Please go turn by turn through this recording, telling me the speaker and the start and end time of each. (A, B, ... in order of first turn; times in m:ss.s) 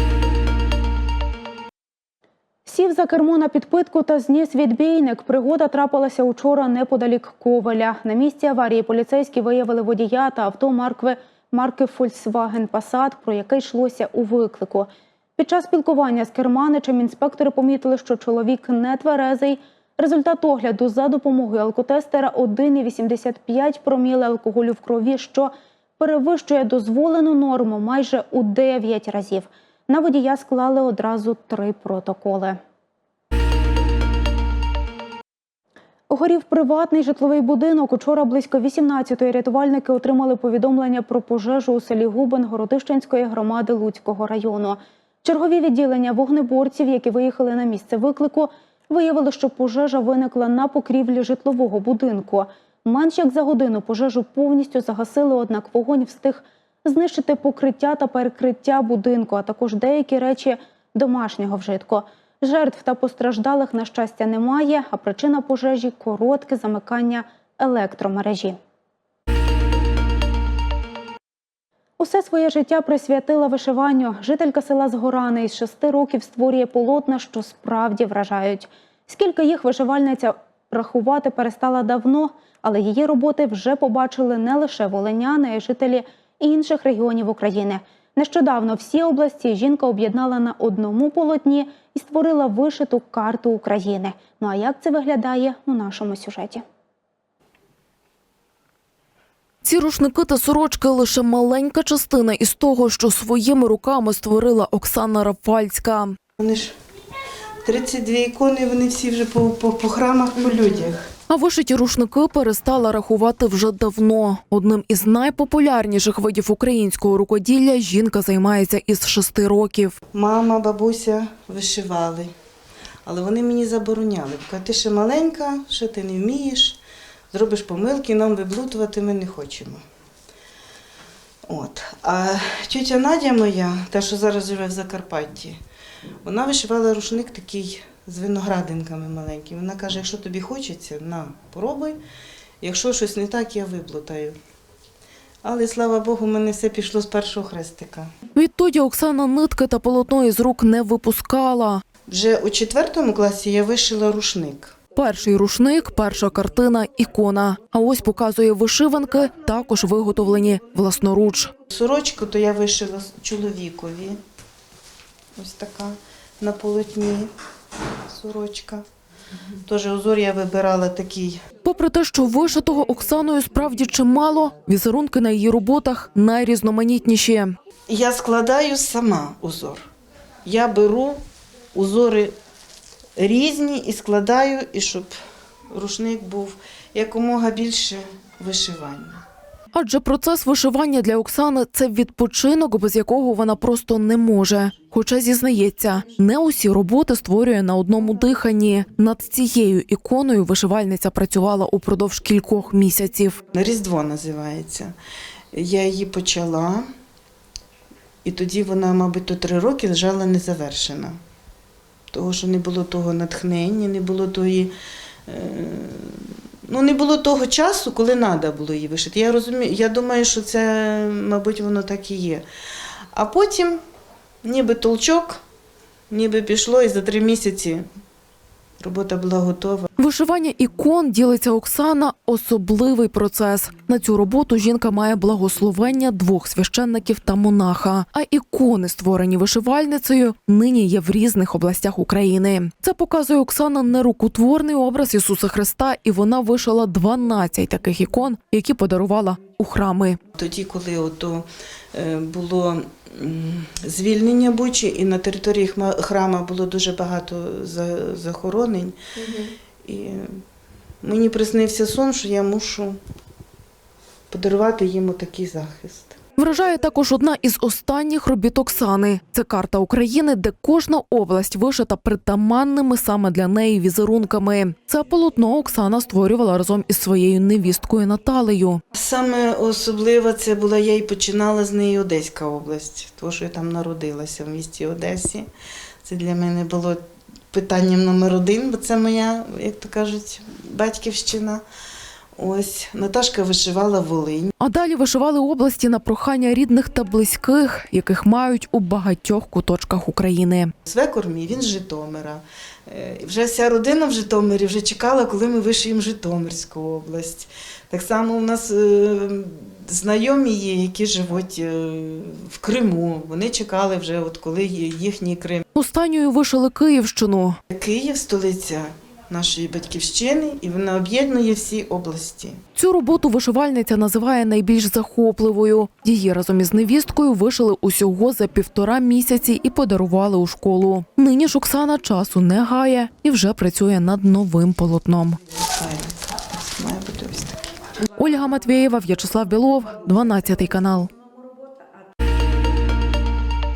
0:02.6-0:32.6 A
0:36.1-1:08.6 A
1:12.0-1:36.6 A
1:39.6-1:46.1 B
1:46.4-1:46.7 C
1:47.6-1:51.1 C
1:51.3-1:59.9 B
2:00.1-2:02.3 C
2:03.0-2:06.8 C
2:07.3-2:09.8 C
2:11.4-2:15.6 C
2:16.2-2:22.0 C
2:22.6-2:24.4 C
2:25.4-2:28.1 C
2:28.3-2:31.8 B
2:32.1-2:34.7 C
2:34.9-2:41.5 B
2:41.7-2:44.2 C
2:45.4-2:47.3 C
2:48.0-2:48.8 C
2:49.6-2:51.4 C
2:51.6-2:57.5 B
2:57.9-2:59.9 C
3:00.4-3:01.2 C
3:01.7-3:02.3 C
3:03.2-3:05.1 C
3:05.7-3:09.2 C
3:09.7-3:23.4 B
3:23.5-3:24.9 C
3:25.5-3:26.9 C
3:28.2-3:31.2 C
3:32.1-3:34.7 C
3:35.3-3:42.4 C
3:43.1-3:43.8 C
3:44.4-3:45.4 C
3:46.1-3:47.9 C
3:48.8-3:49.9 C
3:50.0-4:10.2 B
4:10.3-4:20.4 C
4:21.0-4:23.0 C
4:24.3-4:26.2 C
4:26.4-4:38.8 B
4:38.9-4:45.5 C
4:46.0-4:51.6 C
4:52.4-4:54.5 C
4:54.6-5:00.7 B
5:00.8-5:15.6 C
5:15.8-5:17.6 B
5:17.7-5:22.6 C
5:22.8-5:35.4 B
5:35.7-5:37.7 C
5:38.1-5:41.1 B